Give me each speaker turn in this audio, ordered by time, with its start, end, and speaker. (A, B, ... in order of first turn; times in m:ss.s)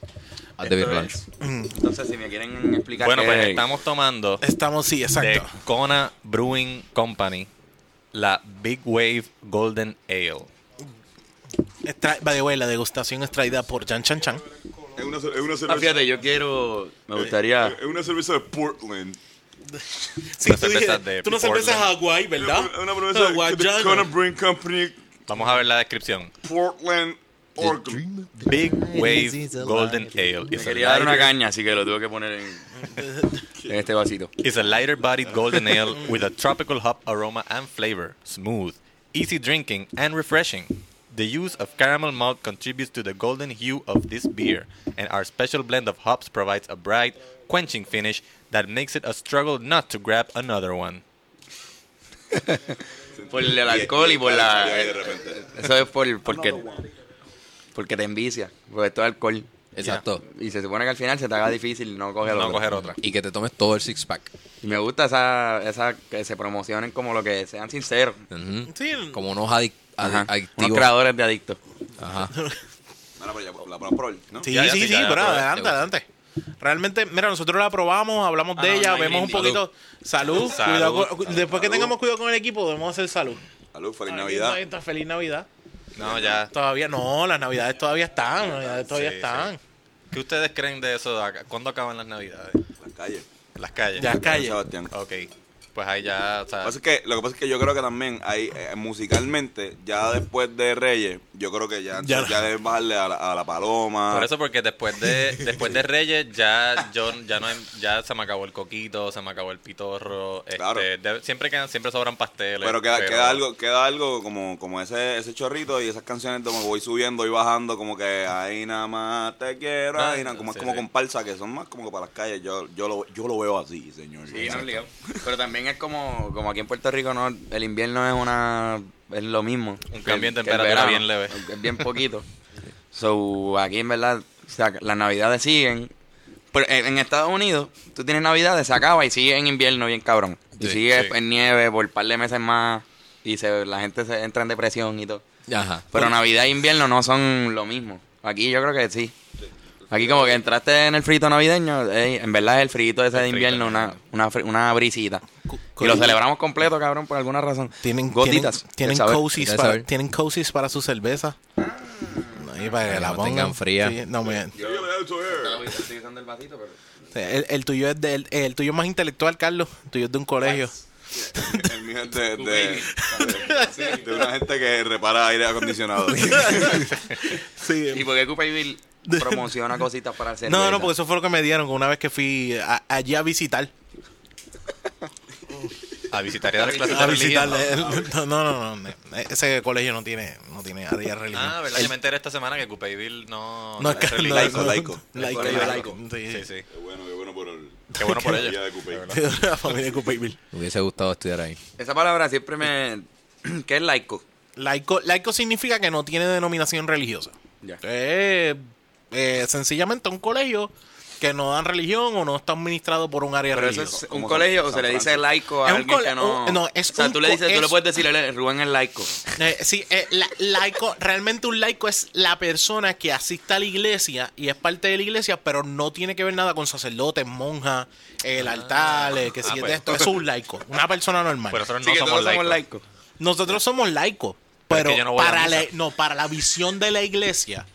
0:00.6-0:01.2 A
0:00.7-0:01.2 B
0:01.4-0:01.8 C
0:01.8-0:03.7 B
0:03.0-0:04.4 D
0:04.4-0:05.5 C
0:05.2-0:07.5 D
0:08.1-0:10.5 D
0:11.8-0:14.4 C
0:15.0-0:16.1 E
0:15.7-0:17.8 B
0:17.2-0:19.2 E
0:20.0-0:24.1 C
0:20.4-0:21.9 D
0:22.4-0:25.0 E
0:25.3-0:26.3 D
0:26.4-0:28.0 E
0:27.6-0:29.9 A
0:28.4-0:31.3 D
0:28.9-0:29.3 C
0:30.5-0:32.7 B
0:32.9-0:33.4 C
0:33.7-0:34.3 B
0:34.4-0:51.0 D
0:52.3-0:56.6 B
0:53.1-0:55.5 E
0:56.2-0:56.9 E
0:57.7-0:59.5 B
0:59.7-1:00.2 A
1:00.2-1:02.7 B
1:02.3-1:03.0 D
1:03.0-1:04.3 A
1:04.6-1:08.2 B
1:08.3-1:10.9 A
1:08.7-1:09.2 C
1:10.0-1:11.6 B
1:12.0-1:12.3 A
1:12.2-1:12.6 C
1:13.2-1:14.7 E
1:14.4-1:16.1 C
1:14.5-1:15.5 D
1:15.4-1:15.8 A
1:16.6-1:23.4 C
1:18.6-1:19.6 D
1:19.3-1:19.6 A
1:20.3-1:21.1 D
1:21.2-1:22.0 E
1:23.7-1:24.6 E
1:24.1-1:25.5 C
1:26.0-1:26.5 D
1:26.0-1:26.4 E
1:26.5-1:29.6 C
1:28.9-1:29.5 D
1:30.1-1:32.6 D
1:32.8-1:33.3 E
1:33.6-1:34.1 D
1:34.0-1:34.6 C
1:34.0-1:34.9 E
1:34.9-1:36.8 D
1:36.6-1:44.3 E
1:42.0-1:42.4 C
1:44.1-1:53.4 D
1:50.6-1:50.9 E
1:52.6-2:05.3 E
2:00.0-2:00.8 D
2:04.3-2:12.3 B
2:09.9-2:11.8 D
2:12.9-2:15.9 B
2:16.5-2:25.2 B
2:20.9-2:21.1 D
2:25.5-2:25.9 A
2:25.9-2:29.1 B
2:29.9-2:30.3 E
2:29.9-2:35.2 B
2:33.1-2:34.0 D
2:35.5-2:36.2 C
2:35.8-2:39.3 B
2:37.8-2:41.4 C
2:39.3-2:39.9 A
2:41.6-2:42.7 B
2:42.4-2:44.5 C
2:42.8-2:44.0 A
2:44.5-2:46.8 B
2:44.6-2:45.7 E
2:47.1-2:50.7 C
2:50.4-2:50.8 B
2:51.1-2:56.8 E
2:51.4-2:51.7 C
2:52.4-2:54.2 B
2:53.0-2:53.7 C
2:56.1-2:58.1 C
2:56.7-2:57.1 D
2:57.9-3:00.9 B
2:59.1-2:59.5 C
3:00.5-3:03.7 C
3:06.1-3:07.8 D
3:06.6-3:08.0 B
3:06.8-3:11.9 C
3:11.3-3:16.7 D
3:13.8-3:16.4 C
3:14.2-3:15.8 E
3:15.2-3:16.0 B
3:16.7-3:19.1 E
3:18.0-3:18.5 C
3:18.0-3:19.2 D
3:19.1-3:20.4 C
3:20.5-3:21.6 A
3:21.8-3:24.2 B
3:24.6-3:34.0 C
3:33.5-3:39.1 B
3:33.8-3:35.2 E
3:35.6-3:37.8 C
3:39.4-3:51.6 C
3:48.4-3:50.1 D
3:51.5-3:52.6 D
3:51.8-3:52.8 B
3:53.2-3:57.7 C
3:54.7-3:55.7 D